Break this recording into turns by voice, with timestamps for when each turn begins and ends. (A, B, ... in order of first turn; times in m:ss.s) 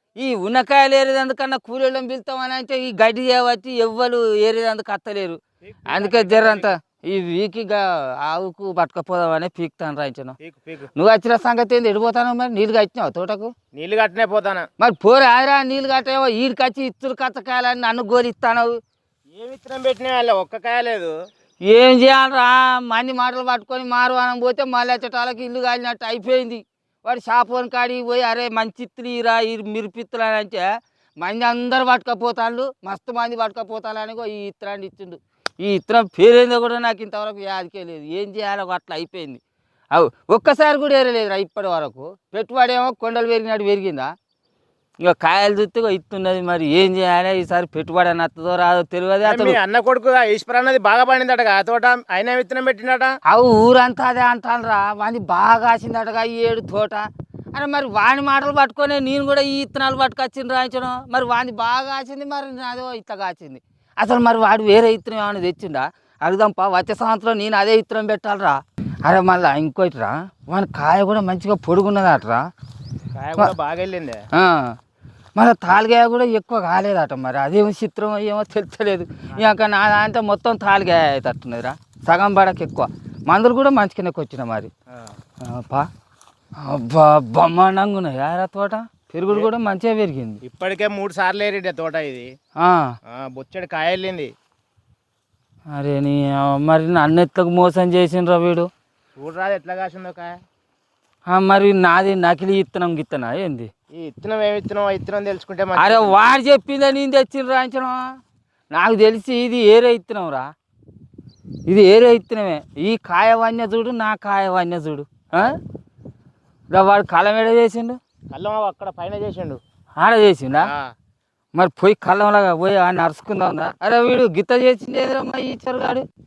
0:00.2-0:10.4 A
0:05.9-0:06.7 B
0:10.4-0:10.9 B
0:11.0-0:13.5 A
0:13.8-0:14.7 B
0:14.8-0:18.8 A
0:19.4-0:21.1 B
0:21.6-0:39.4 A
0:39.9-0:44.1 A
0:45.0-0:49.6 A
0:49.2-0:53.1 B
0:53.3-1:12.5 A
1:13.2-1:14.2 B
1:14.3-1:14.8 A
1:15.4-1:24.7 A
1:25.4-1:25.9 A
1:26.6-1:30.4 A
1:30.4-1:32.3 B
1:32.6-1:32.9 A
1:33.1-1:34.3 B
1:35.7-1:38.7 A
1:39.2-1:40.4 B
1:41.3-1:43.7 A
1:43.9-1:46.2 B
1:45.8-1:48.0 A
1:48.7-1:50.5 A
1:51.7-1:55.6 A
1:56.7-1:58.0 A
1:58.3-1:59.6 B
2:00.0-2:00.7 A
2:00.6-2:00.9 B
2:01.6-2:06.0 A